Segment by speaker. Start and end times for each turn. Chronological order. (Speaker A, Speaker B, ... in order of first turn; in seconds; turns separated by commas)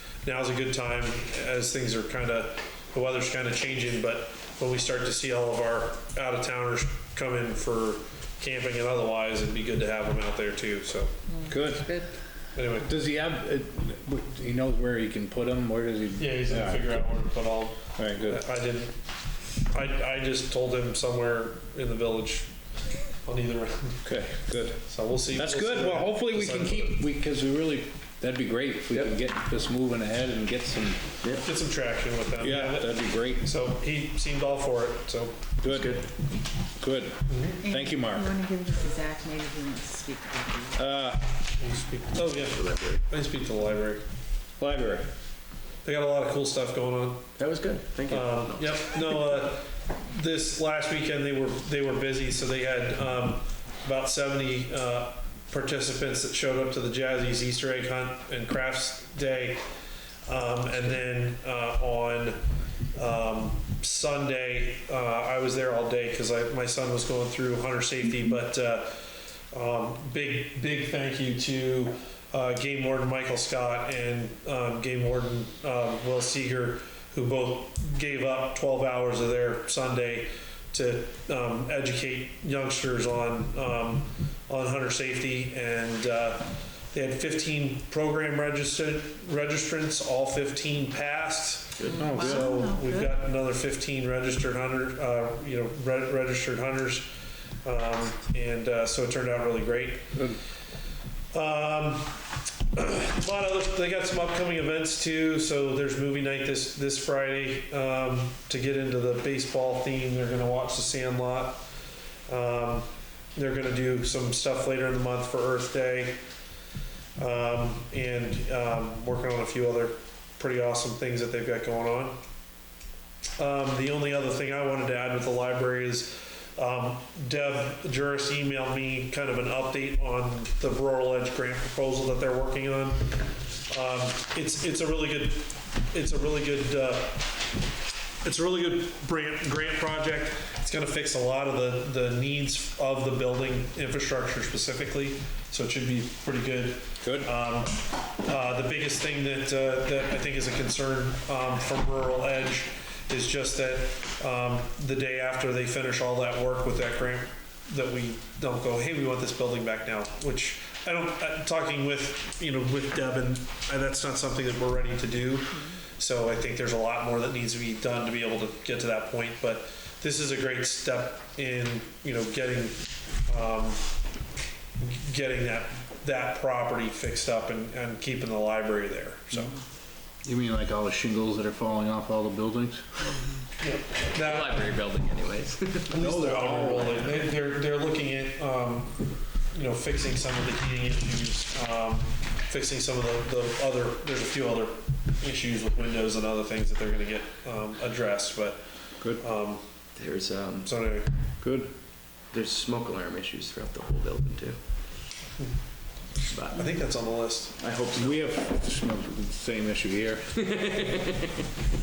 Speaker A: 0.2-11.1, Speaker B: 11.3-12.1, Speaker C: 11.5-11.9, Speaker A: 12.5-12.9, Speaker C: 12.8-17.1, Speaker A: 16.2-18.9, Speaker C: 17.9-18.4, Speaker A: 19.7-22.5, Speaker A: 23.2-24.0, Speaker C: 24.0-31.1, Speaker A: 24.9-27.0, Speaker A: 31.4-35.4, Speaker C: 32.4-33.5, Speaker C: 35.6-36.0, Speaker D: 35.7-36.1, Speaker C: 36.8-38.3, Speaker A: 37.3-37.6, Speaker B: 37.6-40.8, Speaker C: 40.7-41.2, Speaker A: 41.6-44.0, Speaker D: 42.4-43.0, Speaker C: 44.6-45.1, Speaker A: 45.8-47.4, Speaker D: 47.4-48.9, Speaker A: 48.1-59.6, Speaker A: 60.3-62.4, Speaker A: 62.9-97.1, Speaker D: 91.8-92.1, Speaker B: 91.9-93.2, Speaker C: 92.0-92.5, Speaker A: 97.6-100.0, Speaker A: 101.3-102.2, Speaker A: 102.7-111.6, Speaker A: 112.3-116.2, Speaker A: 117.2-122.2, Speaker A: 123.4-133.1, Speaker A: 133.7-137.2, Speaker A: 138.2-173.8, Speaker C: 147.0-147.3, Speaker A: 174.8-179.6, Speaker C: 180.2-182.8, Speaker A: 183.6-184.8, Speaker D: 184.2-186.0, Speaker A: 185.9-199.6, Speaker C: 185.9-187.1, Speaker D: 199.9-200.8, Speaker A: 200.6-201.1, Speaker C: 201.4-201.7, Speaker D: 202.3-204.6, Speaker D: 206.2-206.9, Speaker A: 206.5-207.6, Speaker D: 207.6-208.4, Speaker C: 207.9-210.3, Speaker D: 210.4-211.3